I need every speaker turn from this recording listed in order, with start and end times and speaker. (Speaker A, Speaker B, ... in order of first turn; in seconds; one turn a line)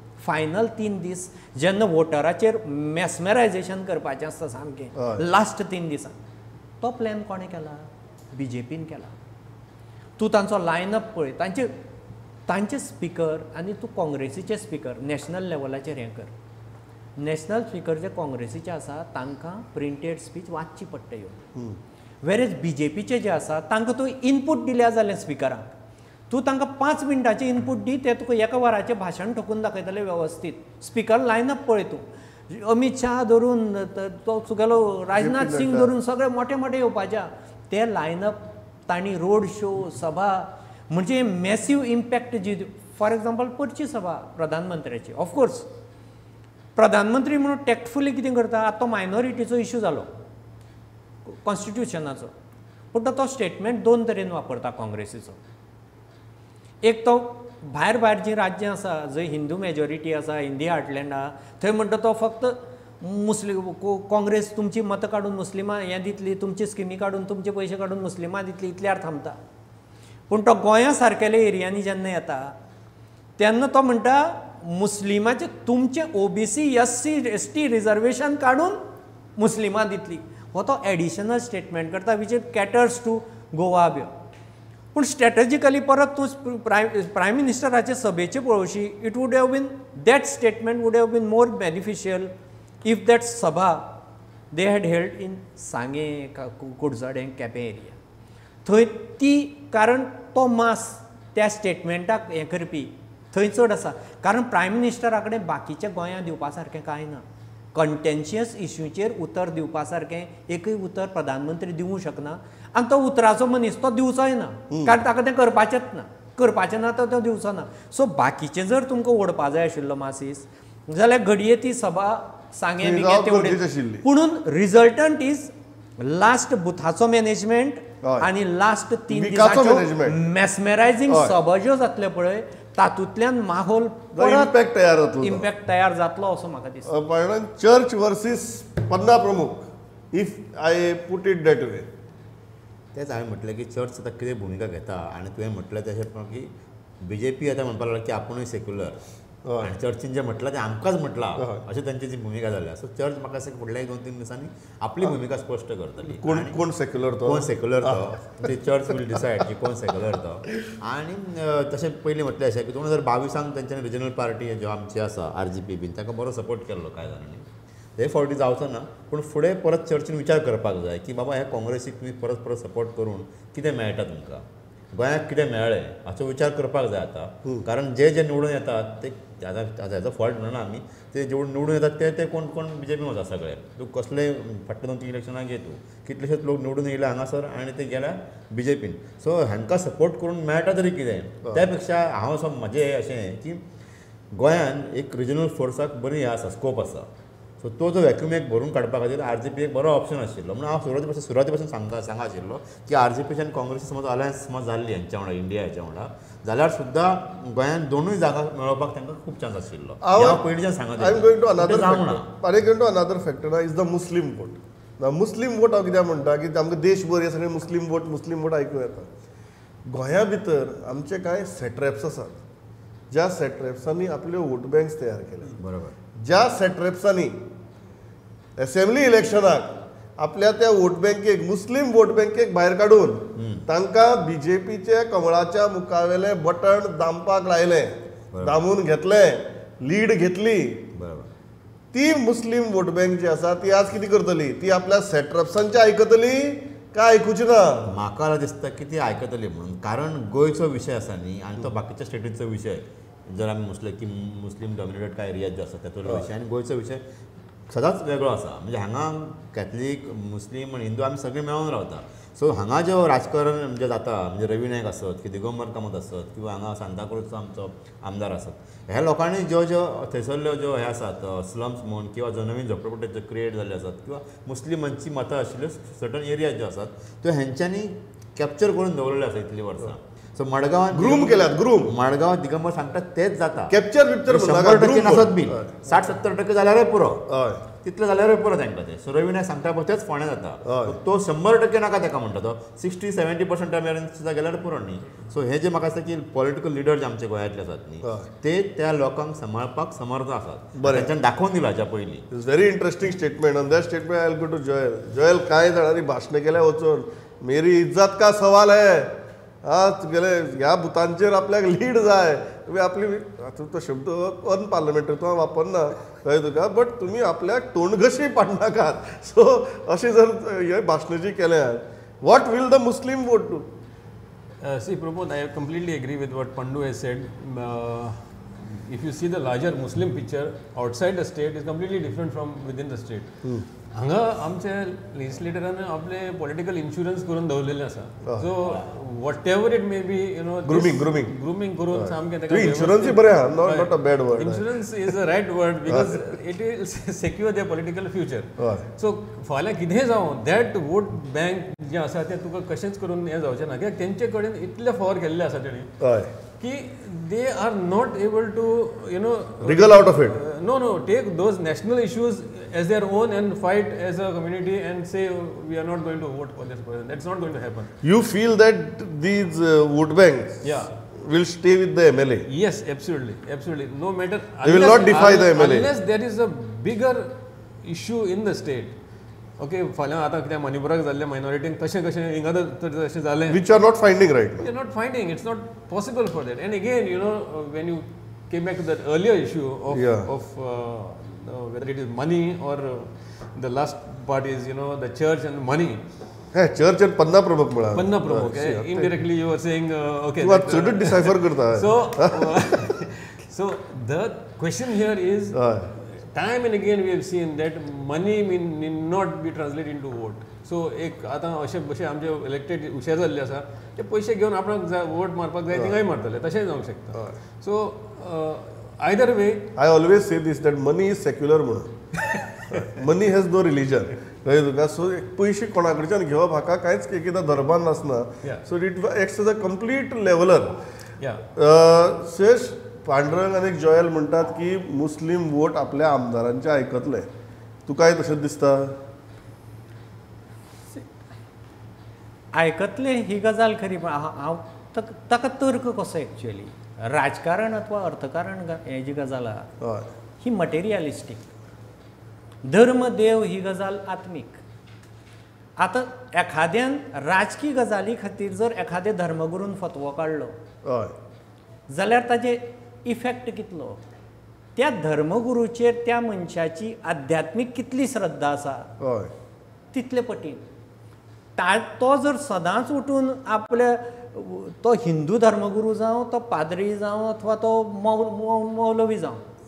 Speaker A: 0.2-6.2
Speaker B: 5.0-5.2
Speaker A: 6.8-9.1
Speaker A: 10.2-11.7
Speaker A: 12.5-16.3
Speaker A: 17.2-21.4
Speaker A: 22.2-25.7
Speaker A: 26.3-45.7
Speaker B: 35.1-35.9
Speaker A: 46.8-50.1
Speaker A: 51.2-52.3
Speaker A: 52.9-55.4
Speaker A: 56.8-69.4
Speaker A: 70.3-72.5
Speaker A: 73.4-78.8
Speaker A: 79.4-84.1
Speaker A: 84.9-94.0
Speaker A: 94.5-98.0
Speaker A: 98.7-134.6
Speaker B: 114.7-115.0
Speaker B: 122.8-124.0
Speaker B: 128.0-128.3
Speaker B: 129.1-130.2
Speaker B: 131.1-131.3
Speaker B: 134.2-135.5
Speaker A: 135.2-136.9
Speaker B: 136.9-141.9
Speaker C: 142.9-146.5
Speaker C: 147.0-149.0
Speaker B: 149.4-149.8
Speaker C: 149.6-156.6
Speaker B: 151.4-151.6
Speaker B: 156.2-158.1
Speaker C: 157.2-167.5
Speaker C: 168.0-193.6
Speaker C: 194.3-197.1
Speaker C: 197.6-212.3
Speaker B: 210.0-219.1
Speaker B: 219.9-222.4
Speaker B: 223.1-225.6
Speaker C: 225.6-225.9
Speaker B: 226.2-227.4
Speaker B: 228.6-240.9
Speaker C: 233.3-233.7
Speaker C: 238.3-238.6
Speaker C: 240.9-241.3
Speaker B: 241.9-247.9
Speaker C: 247.9-257.0
Speaker C: 257.7-283.8
Speaker B: 280.9-281.9
Speaker B: 283.7-285.7
Speaker C: 284.3-287.3
Speaker B: 287.3-287.6
Speaker C: 287.8-302.2
Speaker B: 290.6-291.0
Speaker B: 298.0-298.3
Speaker B: 300.8-301.1
Speaker B: 302.3-323.7
Speaker D: 324.6-356.0
Speaker B: 340.6-341.3
Speaker B: 341.9-345.1
Speaker B: 345.9-346.4
Speaker B: 348.6-348.9
Speaker B: 356.0-356.3
Speaker D: 356.6-367.9
Speaker B: 359.6-360.4
Speaker B: 368.0-372.5
Speaker D: 370.6-370.9
Speaker D: 372.5-379.0
Speaker B: 374.6-375.9
Speaker D: 379.6-383.6
Speaker B: 383.5-384.7
Speaker D: 384.6-396.0
Speaker B: 389.9-390.3
Speaker B: 396.5-399.1
Speaker D: 397.9-419.7
Speaker B: 400.4-402.9
Speaker B: 405.5-405.9
Speaker B: 419.8-421.9
Speaker D: 422.2-422.9
Speaker B: 422.7-430.8
Speaker D: 431.2-431.4
Speaker B: 431.6-437.3
Speaker B: 437.9-439.0
Speaker A: 442.5-449.7
Speaker B: 449.8-450.1
Speaker A: 450.4-451.5
Speaker A: 452.6-454.6
Speaker A: 455.8-460.6
Speaker B: 460.8-461.1
Speaker A: 461.9-464.0
Speaker A: 464.8-468.9
Speaker B: 469.0-469.3
Speaker A: 469.9-470.6
Speaker A: 471.6-479.5